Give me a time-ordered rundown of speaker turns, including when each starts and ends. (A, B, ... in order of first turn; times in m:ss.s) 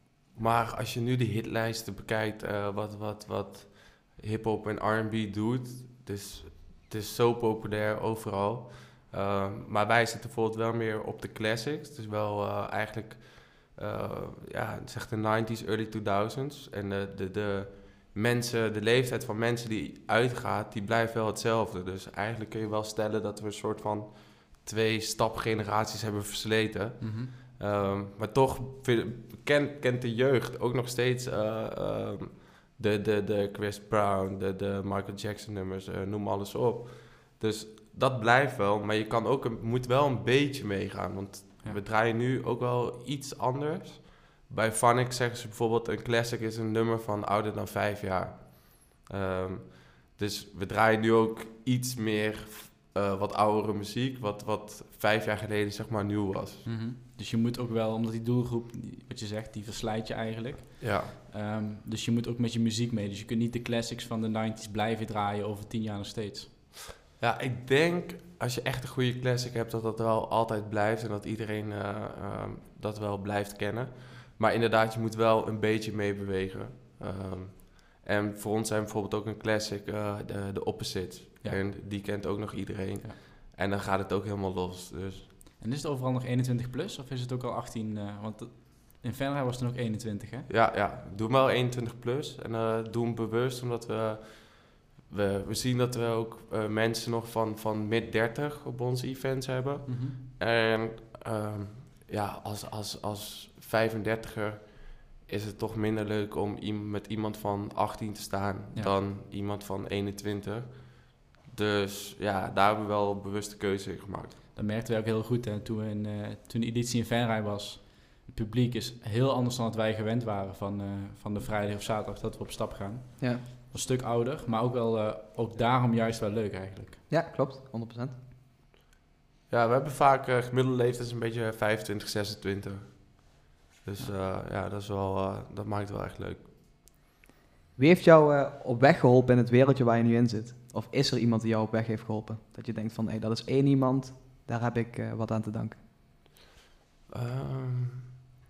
0:00.4-0:56.6 A
0:27.0-0:27.3 B
0:56.6-1:06.5 B
1:00.8-1:01.1 A
1:07.2-1:25.3 A
1:25.6-1:30.5 B
1:30.5-1:54.4 A
1:39.9-1:40.2 B
1:54.6-2:07.0 B
2:07.1-2:08.1 C
2:09.5-2:16.5 A
2:17.8-2:25.8 C
2:27.1-2:28.1 A